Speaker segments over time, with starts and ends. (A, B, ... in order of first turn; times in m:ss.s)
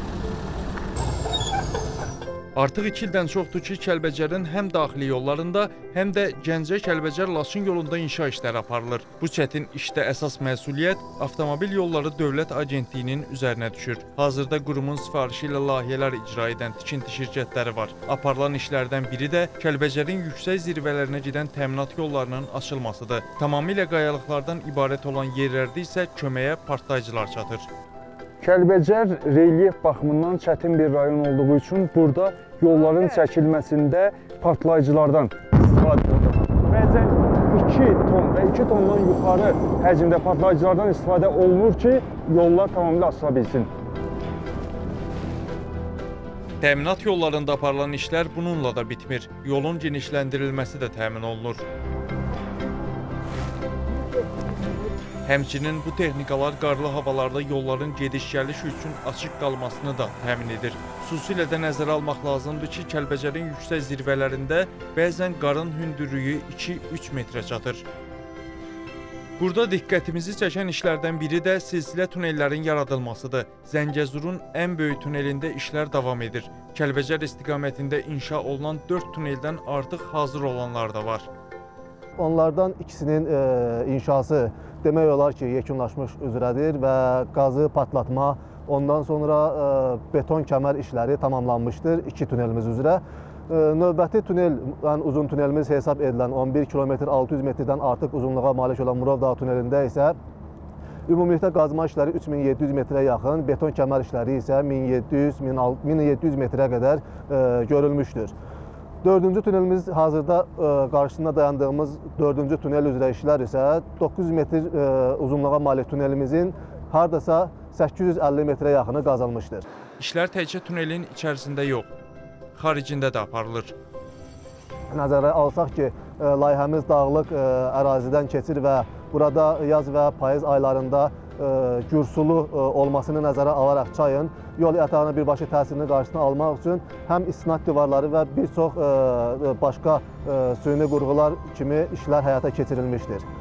0:02.6-0:27.7 A
0:28.4-0:43.7 B
0:46.6-0:51.6 A
0:55.2-1:07.8 A
1:09.4-1:21.3 A
1:22.2-1:40.2 C
1:41.1-1:48.3 C
1:49.0-1:59.6 C
2:00.0-2:01.9 A
2:02.5-2:03.7 A
2:04.9-2:23.2 C